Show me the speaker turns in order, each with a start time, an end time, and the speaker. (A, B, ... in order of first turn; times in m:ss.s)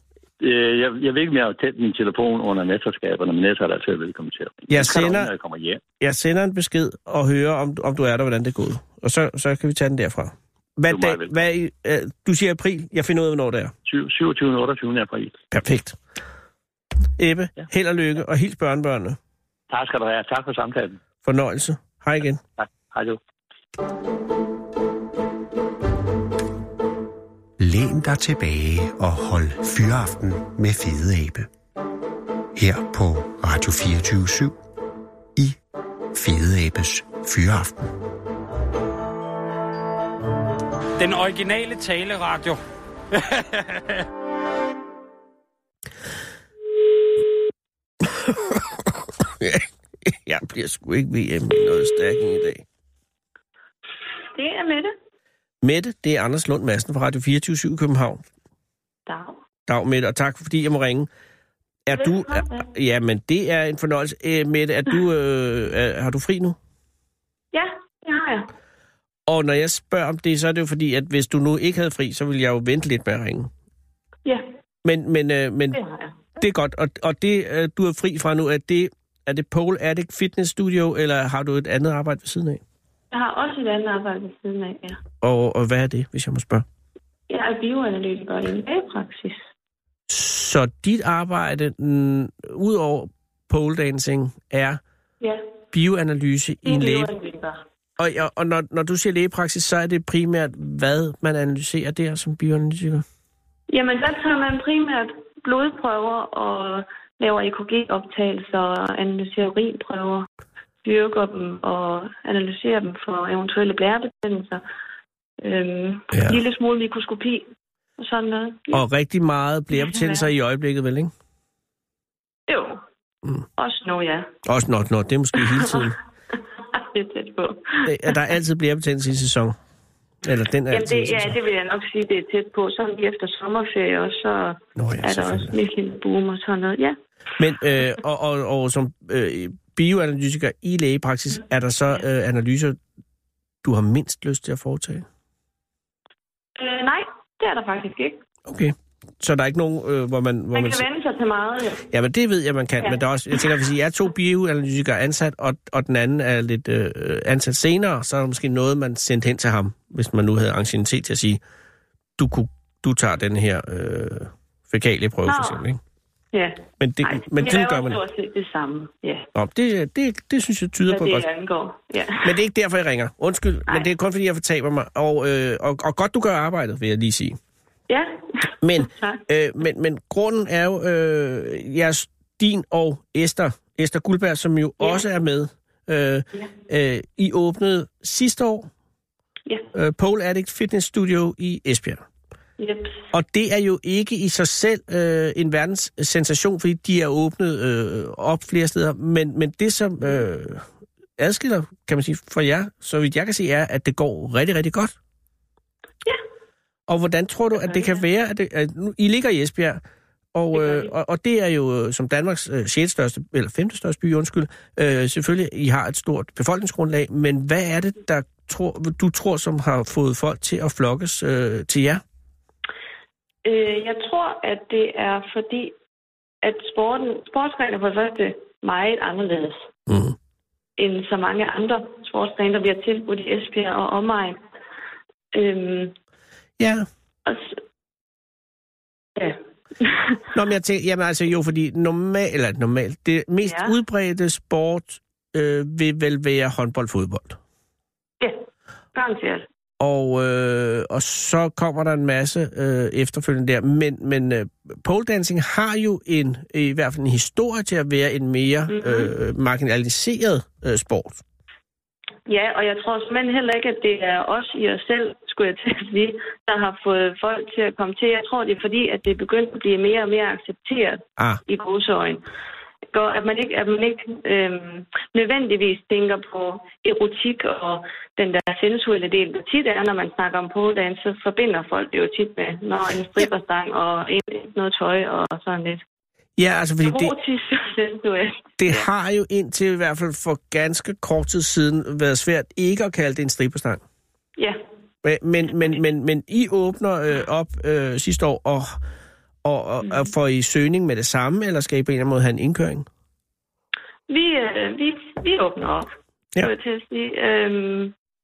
0:00.4-0:05.8 A
0:04.7-0:05.3 B
0:06.0-0:13.7 B
0:10.9-0:11.4 A
0:13.9-0:15.4 A
0:15.5-0:16.0 B
0:17.2-0:19.2 B
0:19.7-0:21.0 A
0:21.2-0:22.4 B
0:22.6-0:23.2 A
0:27.6-0:31.5 C
0:32.6-0:34.6 C
0:36.1-0:37.9 C
0:41.0-0:42.6 D
0:43.1-0:44.0 D
0:48.0-0:52.6 B
0:54.3-0:54.9 E
0:55.6-0:58.2 B
0:59.1-0:59.4 E
0:59.7-1:01.1 B
1:01.9-1:06.6 B
1:01.9-1:02.7 E
1:07.5-1:08.5 E
1:09.3-1:13.5 B
1:14.8-1:15.8 B
1:15.7-1:16.2 E
1:16.4-1:22.6 B
1:23.1-1:25.0 E
1:25.2-1:26.6 B
1:27.3-1:29.4 E
1:30.1-1:34.8 B
1:35.7-1:37.1 B
1:36.6-1:37.6 E
1:38.0-1:43.0 B
1:43.7-1:50.3 E
1:50.8-1:54.6 E
1:55.4-1:57.5 E
1:56.1-1:56.4 B
1:58.0-1:58.8 E
1:58.7-2:01.1 B
1:59.7-2:00.3 E
2:02.5-2:02.8 E
2:03.6-2:04.3 E
2:04.4-2:06.0 B
2:05.4-2:05.9 E
2:06.7-2:08.2 E
2:07.8-2:09.6 B
2:10.2-2:11.4 B
2:10.7-2:17.0 E
2:14.8-2:15.5 B
2:17.4-2:22.8 B
2:23.6-2:25.0 B
2:26.6-2:28.2 E
2:28.5-2:30.9 B
2:30.5-2:31.8 E
2:31.9-2:41.4 B
2:42.2-2:45.8 B
2:45.3-2:45.6 E
2:46.3-2:49.3 E
2:46.8-2:48.0 B
2:49.4-2:51.3 B
2:50.9-2:52.3 E
2:52.2-2:57.4 B
2:57.9-2:59.2 E
2:58.6-3:08.7 B
3:09.7-3:12.0 B
3:12.6-3:13.1 E
3:13.1-3:20.6 B
3:21.2-3:25.0 B
3:26.9-3:29.8 B
3:27.6-3:28.0 E
3:30.3-3:42.0 B
3:30.5-3:30.9 E
3:43.4-3:45.7 E
3:46.4-3:49.7 E
3:49.9-3:50.2 B
3:50.8-3:54.4 E
3:55.3-3:55.9 E
3:56.6-3:56.9 B
3:57.3-3:57.6 E
3:59.2-4:00.2 E
4:00.3-4:07.4 B
4:03.4-4:03.8 E
4:09.0-4:09.5 E
4:09.8-4:21.2 B
4:18.7-4:19.1 E
4:22.3-4:32.2 E
4:32.9-4:45.8 E
4:46.4-4:47.1 B
4:46.8-4:48.9 E
4:48.6-4:53.8 B
4:55.0-4:58.8 B
4:59.4-5:02.9 B
4:59.8-5:00.1 E
5:04.1-5:07.9 E